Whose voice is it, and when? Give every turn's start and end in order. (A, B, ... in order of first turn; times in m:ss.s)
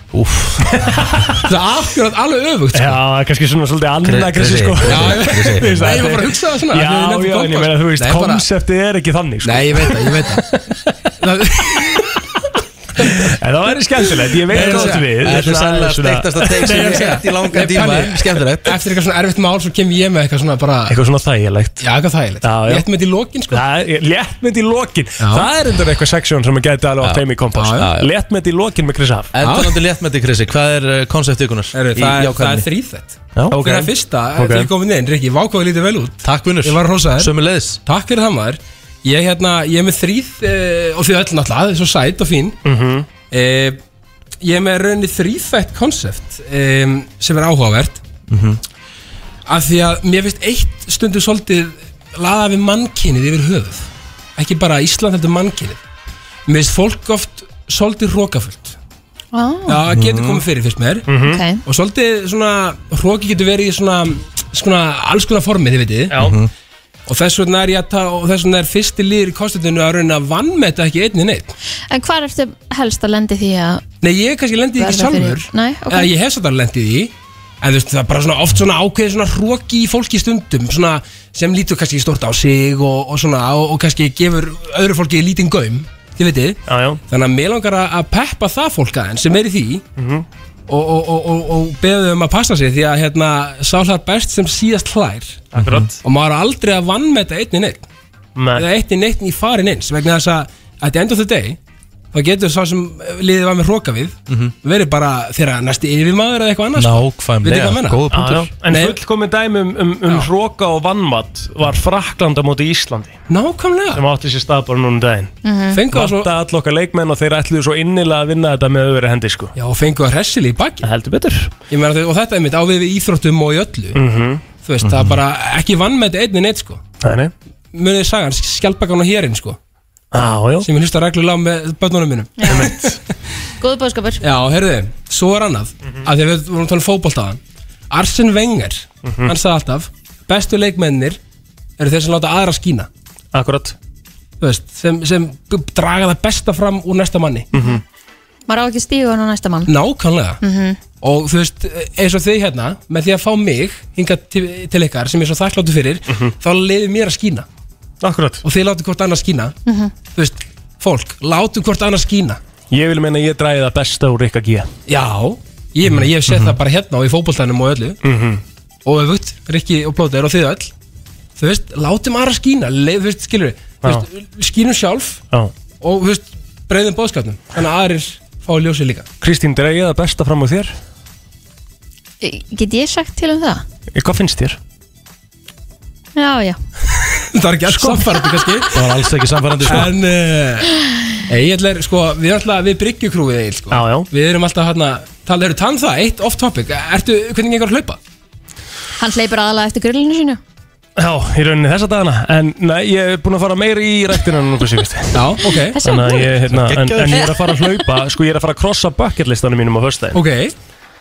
0:00.1-0:00.7 A
0:00.7-0:01.4 B
0:01.4-0:03.0 C
0:02.7-0:10.4 B
0:04.0-0:06.1 A
0:04.8-0:08.4 C
0:09.4-0:10.6 C
0:11.2-0:12.2 C
0:13.0-0:13.3 C
0:13.2-0:17.2 B
0:14.5-0:15.0 C
0:14.5-0:18.8 A
0:16.6-0:21.0 C
0:20.9-0:21.8 B
0:21.8-0:23.6 C
0:22.4-0:22.8 B
0:23.5-0:29.3 B
0:25.2-0:25.5 C
0:27.0-0:28.1 A
0:27.6-0:27.9 C
0:29.3-0:32.7 A
0:29.4-0:29.7 C
0:31.7-0:37.3 C
0:33.3-0:33.8 A
0:33.5-0:34.7 B
0:36.2-0:37.8 A
0:37.8-0:42.6 C
0:42.6-0:43.0 B
0:43.3-0:43.8 C
0:44.4-0:48.0 C
0:48.3-0:48.6 A
0:49.5-0:55.8 C
0:56.5-0:58.8 C
0:59.3-0:59.8 D
0:59.7-1:01.1 C
0:59.9-1:00.4 A
1:01.1-1:01.4 B
1:01.2-1:01.6 D
1:01.6-1:06.2 C
1:06.1-1:06.4 B
1:06.2-1:06.5 A
1:07.1-1:11.5 C
1:11.9-1:13.8 D
1:14.0-1:29.8 C
1:14.8-1:16.1 D
1:26.7-1:27.0 B
1:30.0-1:30.2 B
1:30.7-1:37.8 C
1:35.5-1:36.0 B
1:35.6-1:35.9 A
1:38.4-1:38.6 B
1:38.5-1:41.6 C
1:42.1-1:48.0 C
1:44.3-1:44.5 A
1:46.8-1:48.5 A
1:48.1-1:53.2 B
1:48.6-1:49.0 C
1:53.3-1:54.0 C
1:53.9-1:55.3 B
1:55.4-1:55.8 D
1:55.7-1:56.3 C
1:55.9-1:59.5 B
1:59.6-2:00.9 C
2:00.8-2:01.5 B
2:01.7-2:04.0 C
2:03.9-2:04.4 B
2:04.6-2:06.8 C
2:04.8-2:05.2 A
2:07.0-2:07.3 B
2:07.7-2:09.6 C
2:10.1-2:10.7 B
2:10.6-2:12.9 C
2:12.4-2:12.7 D
2:12.5-2:13.0 B
2:13.6-2:14.2 D
2:14.2-2:21.2 C
2:19.0-2:19.3 B
2:21.8-2:22.9 C
2:23.3-2:23.8 B
2:24.4-2:27.5 C
2:27.5-2:27.8 D
2:28.5-2:29.7 D
2:29.7-2:30.4 C
2:30.4-2:30.8 D
2:31.0-2:37.4 C
2:38.0-2:38.4 B
2:38.4-2:39.5 C
2:39.6-2:39.9 D
2:40.1-2:42.4 C
2:42.7-2:44.7 B
2:44.9-2:48.0 C
2:48.0-2:48.4 B
2:48.8-2:50.7 C
2:51.4-2:55.2 C
2:55.8-2:59.1 C
2:59.2-3:00.8 B
3:02.2-3:03.6 D
3:03.9-3:04.6 B
3:06.2-3:06.6 D
3:07.1-3:08.7 C
3:07.7-3:08.1 B
3:08.7-3:09.9 A
3:09.6-3:10.7 C
3:11.3-3:18.0 C
3:13.7-3:14.1 B
3:19.0-3:20.4 D
3:21.0-3:30.2 B
3:25.1-3:25.8 C
3:25.5-3:26.3 D
3:26.5-3:27.3 A
3:27.1-3:27.6 D
3:30.1-3:30.5 C